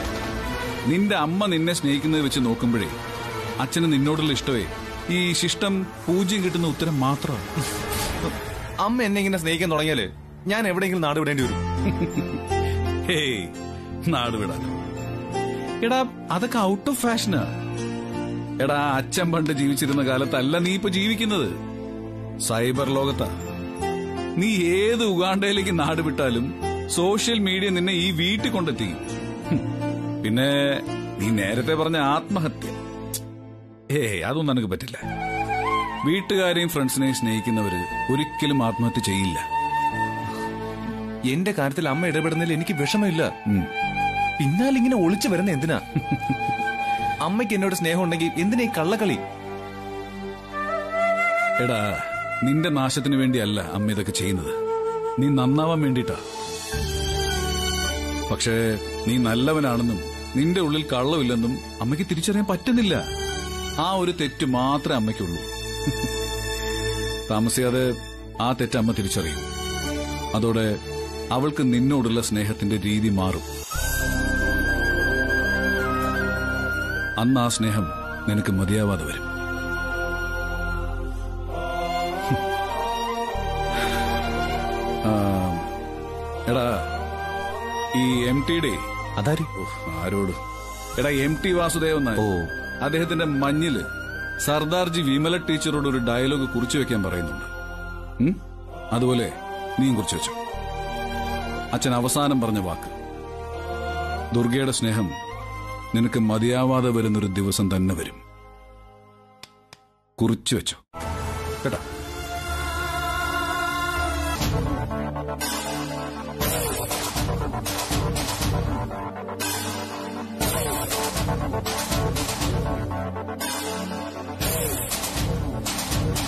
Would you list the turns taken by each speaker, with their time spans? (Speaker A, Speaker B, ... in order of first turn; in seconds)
Speaker A: 0.9-2.9, 3.6-7.4, 11.9-12.4, 13.1-13.5, 14.1-14.7, 15.8-17.5, 18.6-21.5, 22.4-23.3, 24.4-29.0, 30.2-32.8, 33.9-35.0, 36.1-39.4, 46.0-46.4, 51.6-54.5, 55.2-56.2, 58.3-63.0, 63.8-66.0, 67.3-67.9, 68.4-69.4, 70.3-70.7, 71.3-73.5, 77.2-79.2, 85.0-85.6, 86.5-86.8, 87.9-88.8, 89.6-90.4, 91.0-92.2, 92.8-93.8, 94.4-97.5, 98.9-100.4, 101.7-102.9, 104.3-105.1, 105.9-108.2, 110.2-110.8
Speaker B: 8.2-11.6, 41.3-43.3, 44.4-45.8, 47.2-49.2, 89.2-89.5, 92.2-92.4